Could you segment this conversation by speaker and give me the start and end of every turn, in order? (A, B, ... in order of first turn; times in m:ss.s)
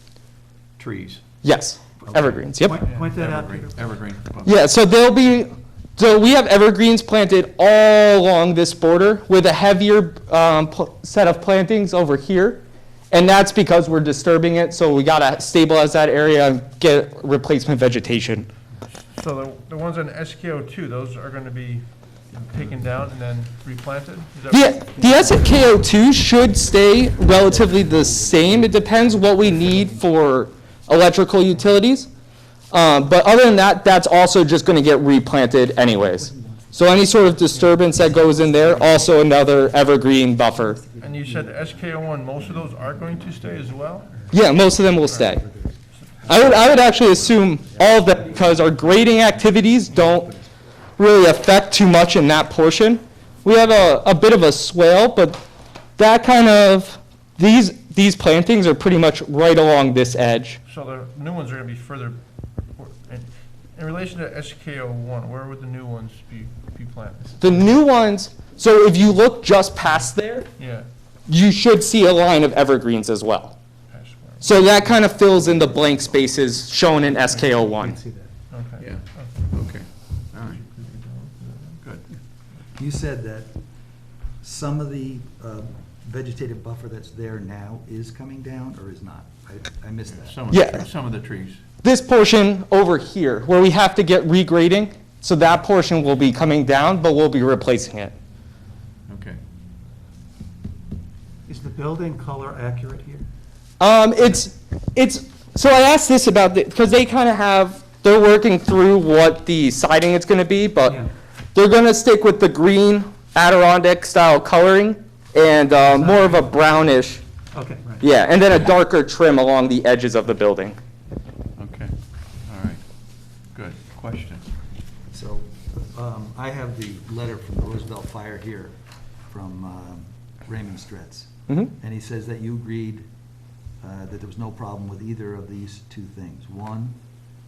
0:00.8-0:01.2 A
0:01.4-0:02.8 B
0:02.1-0:02.4 A
0:02.6-0:03.8 C
0:02.9-0:04.7 A
0:04.4-0:18.5 B
0:19.1-0:25.6 D
0:24.5-0:32.1 B
0:27.3-0:30.0 E
0:32.7-0:40.8 B
0:36.2-0:39.2 E
0:40.6-0:41.8 E
0:41.0-0:44.2 D
0:44.3-0:45.4 B
0:45.0-0:49.2 E
0:46.0-0:46.7 D
0:46.3-0:50.3 B
0:49.9-0:50.7 E
0:51.0-0:55.4 B
0:56.0-1:00.6 B
1:00.7-1:02.2 D
1:02.8-1:07.8 D
1:07.4-1:10.5 B
1:10.6-1:10.9 D
1:11.3-1:13.6 B
1:13.9-1:14.8 D
1:14.4-1:18.0 B
1:17.4-1:18.1 E
1:17.5-1:18.1 C
1:18.5-1:19.5 D
1:18.8-1:20.6 A
1:20.6-1:21.6 D
1:22.8-1:23.5 E
1:24.4-1:30.4 E
1:30.1-1:31.6 A
1:30.5-1:30.9 B
1:31.8-1:38.1 B
1:39.1-1:39.4 A
1:41.5-1:43.2 C
1:43.8-1:57.2 B
1:56.0-1:56.5 C
1:57.5-1:58.0 C
1:58.0-2:00.8 B
2:01.6-2:01.9 A
2:02.5-2:02.8 A
2:03.5-2:04.4 A
2:05.1-2:08.8 E
2:09.3-2:13.0 E
2:13.8-2:17.0 E